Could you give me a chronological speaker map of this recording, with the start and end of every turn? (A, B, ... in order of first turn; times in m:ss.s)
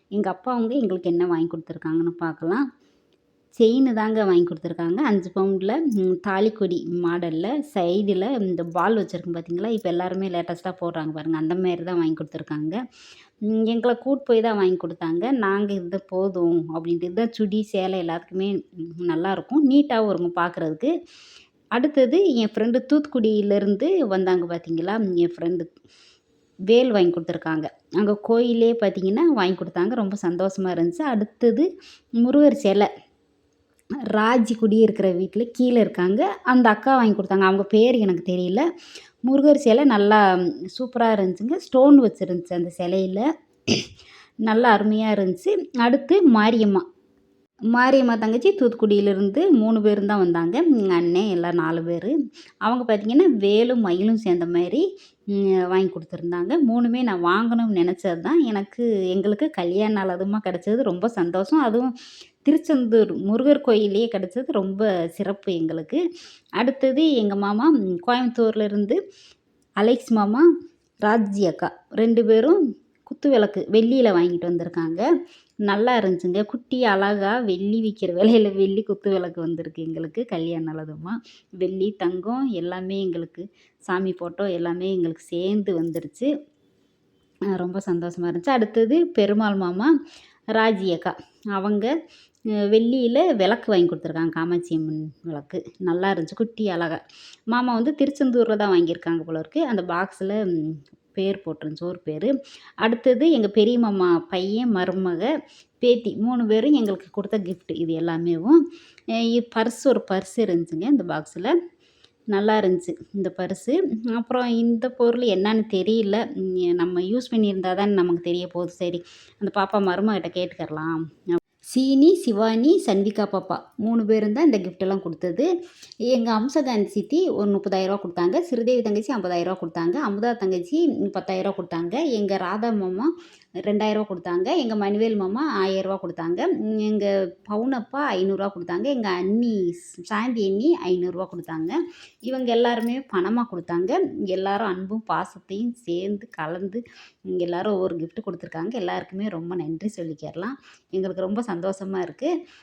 0:00.2-0:02.6 A
0:03.6-0:12.8 A
0:13.5-0:20.9 A
0:21.8-0:25.7 A
0:26.7-0:31.7 A
0:32.2-0:32.9 A
0:34.1-0:38.7 A
0:39.3-0:40.2 A
0:40.7-0:43.9 A
0:44.5-0:46.8 A
0:47.7-1:01.9 A
1:02.4-1:06.0 A
1:06.6-1:09.0 A
1:09.8-1:10.5 A
1:11.0-1:15.1 A
1:15.7-1:26.3 A
1:27.5-1:29.9 A
1:30.5-1:31.9 A
1:32.7-1:37.0 A
1:37.5-1:45.3 A
1:45.8-1:48.6 A
1:49.2-1:51.5 A
1:52.3-2:05.5 A
2:06.1-2:13.1 A
2:13.6-2:26.8 A
2:27.3-2:32.3 A